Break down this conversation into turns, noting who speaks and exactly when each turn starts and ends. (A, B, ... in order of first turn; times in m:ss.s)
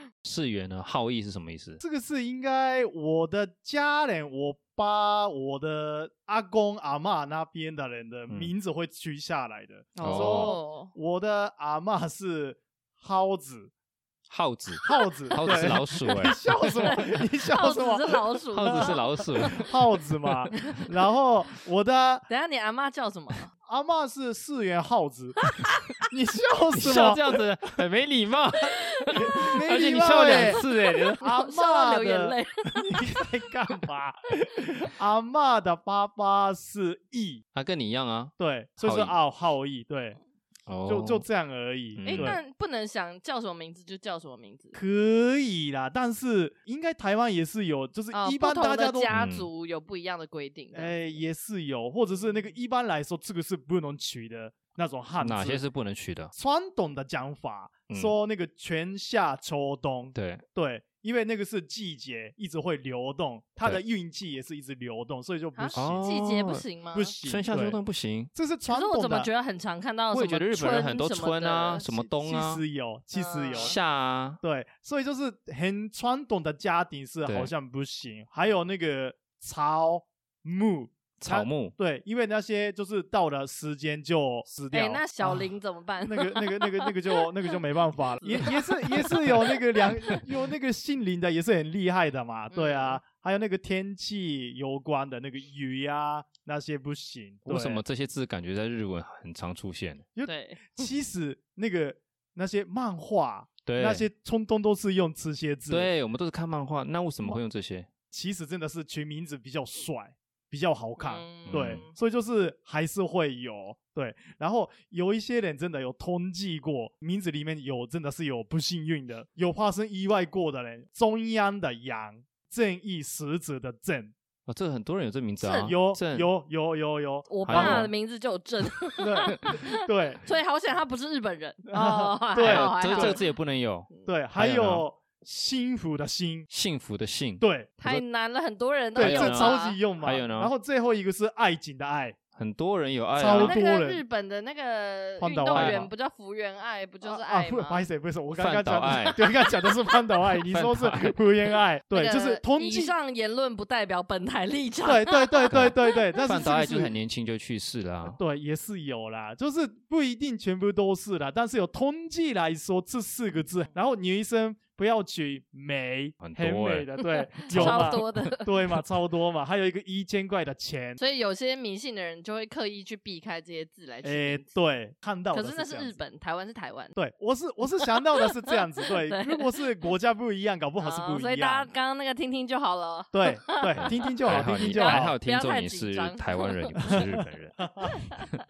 0:00.2-0:01.8 A
0:01.8-0:13.7 B
0:10.0-0:10.9 C
0:10.0-0:10.5 A
0:14.3-0:16.4 A
0:14.8-0:18.9 B
0:15.6-0:16.1 C
0:16.8-0:19.6 C
0:18.5-0:19.7 A
0:19.5-0:22.2 B
0:20.2-0:20.5 A
0:22.3-0:23.5 C
0:23.7-0:25.4 B
0:26.1-0:27.4 B
0:26.8-0:31.2 A
0:28.7-0:29.4 C
0:29.1-0:30.6 B
0:30.2-0:33.3 C
0:31.2-0:37.4 B
0:37.5-0:39.1 A
0:38.4-0:40.2 B
0:40.7-0:41.2 A
0:40.9-0:42.4 B
0:41.9-0:42.4 A
0:42.1-0:44.8 C
0:44.7-0:49.1 B
0:48.1-0:51.0 C
0:49.1-0:49.5 A
0:50.7-0:55.6 B
0:55.2-0:56.3 A
0:56.4-1:06.0 B
0:57.9-0:58.1 A
1:00.1-1:00.4 A
1:05.6-1:07.1 C
1:05.8-1:06.6 A
1:06.9-1:07.8 B
1:07.2-1:08.3 A
1:08.3-1:09.3 B
1:08.7-1:11.8 C
1:10.1-1:12.6 A
1:11.9-1:13.8 B
1:13.1-1:13.8 C
1:13.5-1:14.4 A
1:14.4-1:25.5 B
1:17.2-1:17.5 A
1:21.2-1:21.7 A
1:24.7-1:27.6 C
1:26.0-1:37.8 B
1:28.2-1:30.2 C
1:32.5-1:33.0 C
1:37.5-1:40.1 A
1:40.2-1:45.9 B
1:40.2-1:40.9 C
1:43.6-1:44.0 A
1:45.7-1:47.9 A
1:48.1-2:04.1 B
1:51.0-1:51.9 C
1:51.5-1:51.8 A
2:04.5-2:06.3 A
2:05.4-2:05.7 C
2:05.6-2:07.9 B
2:07.3-2:13.3 C
2:07.4-2:07.9 A
2:09.0-2:10.2 B
2:11.7-2:13.2 B
2:12.4-2:14.8 A
2:14.0-2:16.5 B
2:16.5-2:18.0 A
2:17.4-2:17.8 B
2:17.8-2:19.8 C
2:18.9-2:22.2 B
2:19.0-2:20.5 A
2:22.4-2:23.6 A
2:23.1-2:24.0 B
2:23.3-2:27.8 C
2:25.2-2:25.9 B
2:25.5-2:25.9 A
2:27.0-2:32.9 B
2:28.4-2:29.2 A
2:28.9-2:29.5 C
2:30.5-2:31.2 A
2:31.9-2:36.0 C
2:34.8-2:36.9 B
2:35.5-2:38.2 A
2:38.1-2:51.0 B
2:46.2-2:46.9 A
2:47.0-2:48.7 C
2:47.5-2:48.4 A
2:51.0-2:54.5 C
2:54.0-2:56.0 B
2:55.3-2:57.0 C
2:57.0-3:01.7 B
2:57.8-2:58.2 C
2:59.0-2:59.5 C
3:00.8-3:07.1 C
3:03.1-3:05.2 B
3:03.8-3:08.4 A
3:06.9-3:08.0 B
3:07.8-3:08.3 C